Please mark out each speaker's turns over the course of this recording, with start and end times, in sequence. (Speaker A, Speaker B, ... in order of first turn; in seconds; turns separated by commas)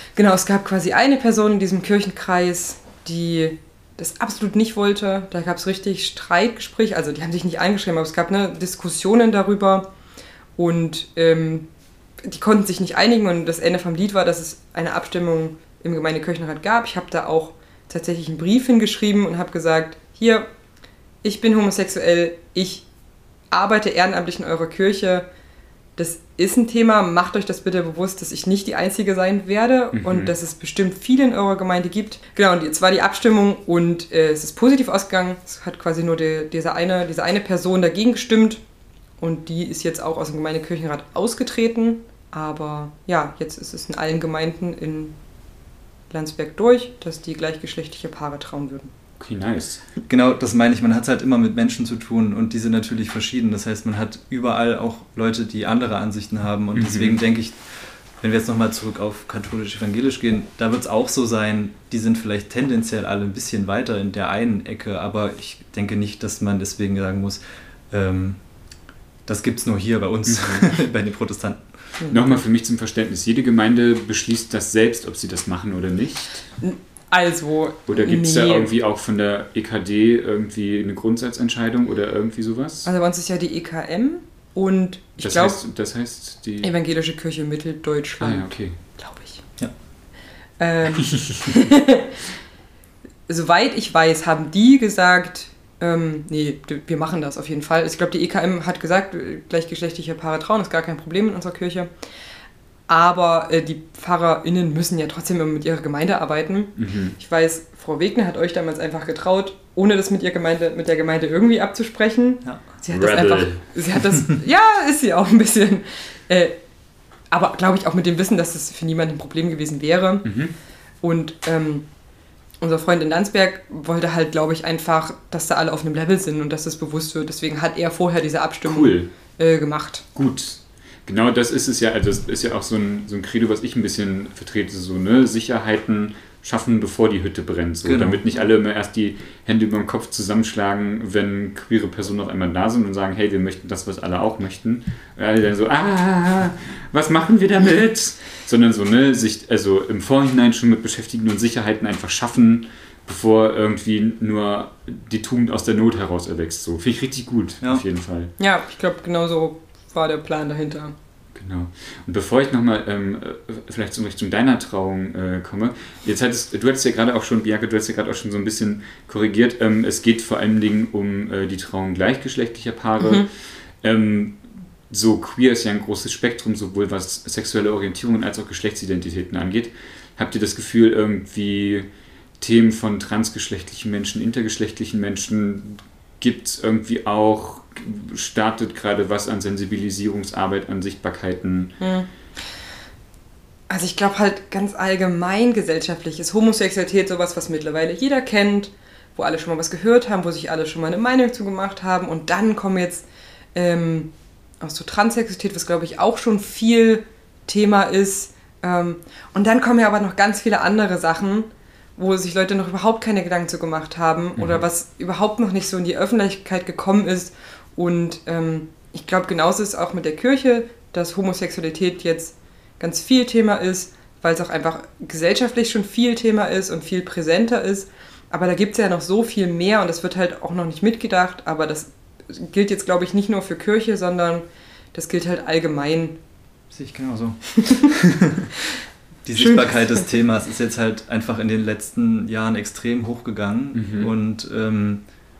Speaker A: 0.1-9.9, Speaker A: 10.6-11.7, Speaker A: 12.2-20.5, Speaker A: 21.2-22.9, Speaker A: 23.5-25.3, Speaker A: 26.0-38.6, Speaker B: 29.9-30.3, Speaker A: 39.2-45.1, Speaker A: 46.1-48.9, Speaker B: 49.2-49.8, Speaker C: 50.1-57.6, Speaker B: 56.7-57.2, Speaker C: 58.2-68.4, Speaker C: 69.2-71.6, Speaker B: 70.2-70.7, Speaker B: 72.1-76.5, Speaker A: 76.6-78.7, Speaker B: 77.9-82.9, Speaker A: 82.8-85.6, Speaker B: 85.2-86.7, Speaker A: 86.6-89.4, Speaker B: 88.2-88.8, Speaker A: 90.6-92.2, Speaker A: 93.3-101.9, Speaker A: 102.9-116.6, Speaker B: 106.8-107.2, Speaker B: 112.9-113.7, Speaker A: 117.3-120.3, Speaker B: 120.2-120.5, Speaker A: 121.0-121.9, Speaker A: 122.6-130.0, Speaker B: 128.6-129.1, Speaker B: 130.1-158.3, Speaker C: 137.8-138.2, Speaker A: 158.4-160.9, Speaker B: 161.3-191.8, Speaker A: 173.0-173.3, Speaker A: 191.8-192.1, Speaker A: 193.7-236.2, Speaker B: 214.4-214.6, Speaker C: 236.7-245.0, Speaker A: 237.6-237.9, Speaker A: 239.3-240.1, Speaker B: 243.7-244.1